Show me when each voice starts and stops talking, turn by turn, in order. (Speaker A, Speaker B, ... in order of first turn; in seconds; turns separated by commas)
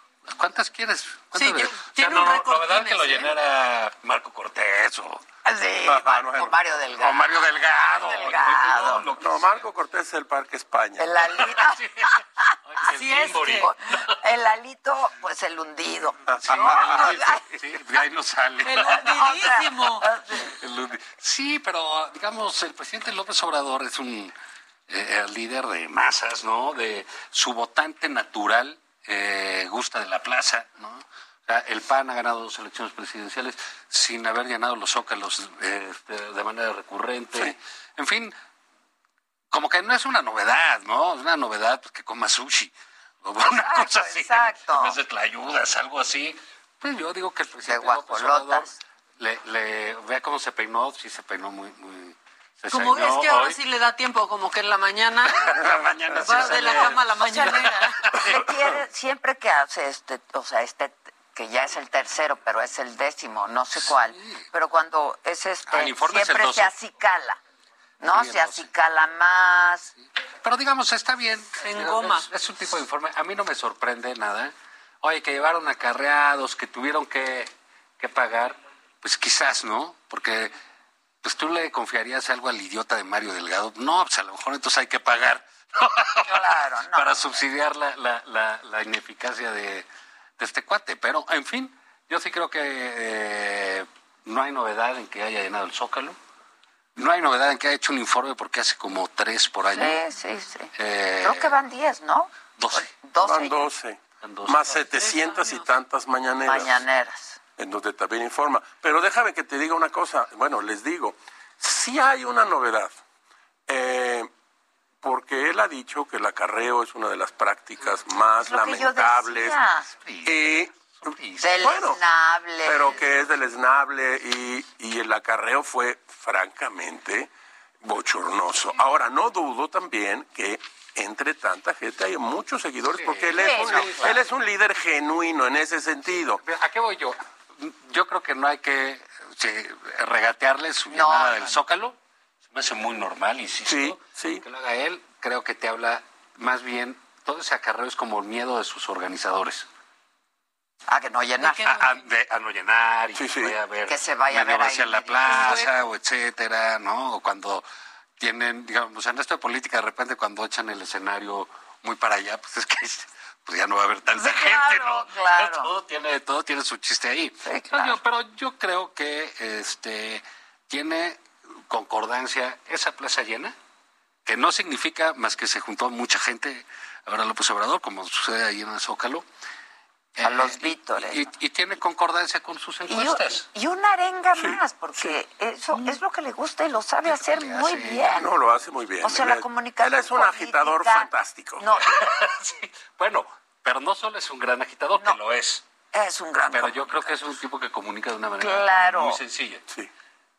Speaker A: 0.3-5.2, Speaker B: 1.3-3.3, Speaker C: 5.4-9.1, Speaker D: 5.9-6.5, Speaker A: 7.0-9.6, Speaker D: 9.2-11.2, Speaker C: 11.0-12.2, Speaker A: 11.4-14.1, Speaker B: 12.9-13.7, Speaker C: 13.5-17.4, Speaker D: 16.3-17.0, Speaker A: 16.4-24.3, Speaker B: 18.6-20.1, Speaker C: 19.0-20.5, Speaker A: 24.9-38.3, Speaker A: 39.5-42.7, Speaker A: 43.2-53.6, Speaker C: 43.4-45.0, Speaker C: 47.6-48.7, Speaker B: 52.7-55.5, Speaker A: 55.3-58.5, Speaker B: 56.2-58.1, Speaker C: 57.2-67.4, Speaker A: 63.8-64.4, Speaker A: 65.7-66.7, Speaker C: 68.0-69.9, Speaker A: 68.0-68.7, Speaker A: 70.4-80.5, Speaker B: 71.6-72.3, Speaker A: 81.2-89.9, Speaker C: 86.2-87.4, Speaker A: 90.4-96.2, Speaker A: 97.0-100.0, Speaker C: 99.7-100.7, Speaker A: 100.8-101.6, Speaker C: 101.2-103.6, Speaker A: 102.5-102.9, Speaker D: 103.2-106.8, Speaker A: 104.2-104.8, Speaker B: 104.8-105.7, Speaker C: 106.5-107.4, Speaker D: 107.6-112.9, Speaker D: 113.7-114.3, Speaker D: 115.0-119.6, Speaker C: 118.4-119.9, Speaker A: 119.9-121.9, Speaker D: 120.2-122.0, Speaker C: 121.4-123.0, Speaker D: 122.6-127.3, Speaker D: 127.8-136.4, Speaker A: 132.9-134.2, Speaker C: 133.3-134.1, Speaker A: 136.1-141.9, Speaker C: 140.9-141.6, Speaker A: 142.5-149.7, Speaker D: 143.7-144.4, Speaker C: 150.9-151.7, Speaker B: 151.4-151.9, Speaker A: 151.6-157.6, Speaker D: 153.1-153.6, Speaker C: 153.9-155.7, Speaker B: 155.3-155.8, Speaker A: 158.2-173.5, Speaker C: 164.1-165.7, Speaker C: 167.4-168.0, Speaker A: 174.2-179.2, Speaker A: 180.2-183.4, Speaker C: 180.2-181.2, Speaker C: 182.9-188.3, Speaker D: 184.4-185.2, Speaker A: 187.0-188.3, Speaker D: 188.2-191.7, Speaker C: 189.0-192.1, Speaker A: 191.8-195.6, Speaker C: 195.9-197.2, Speaker A: 196.5-199.6, Speaker C: 198.4-199.2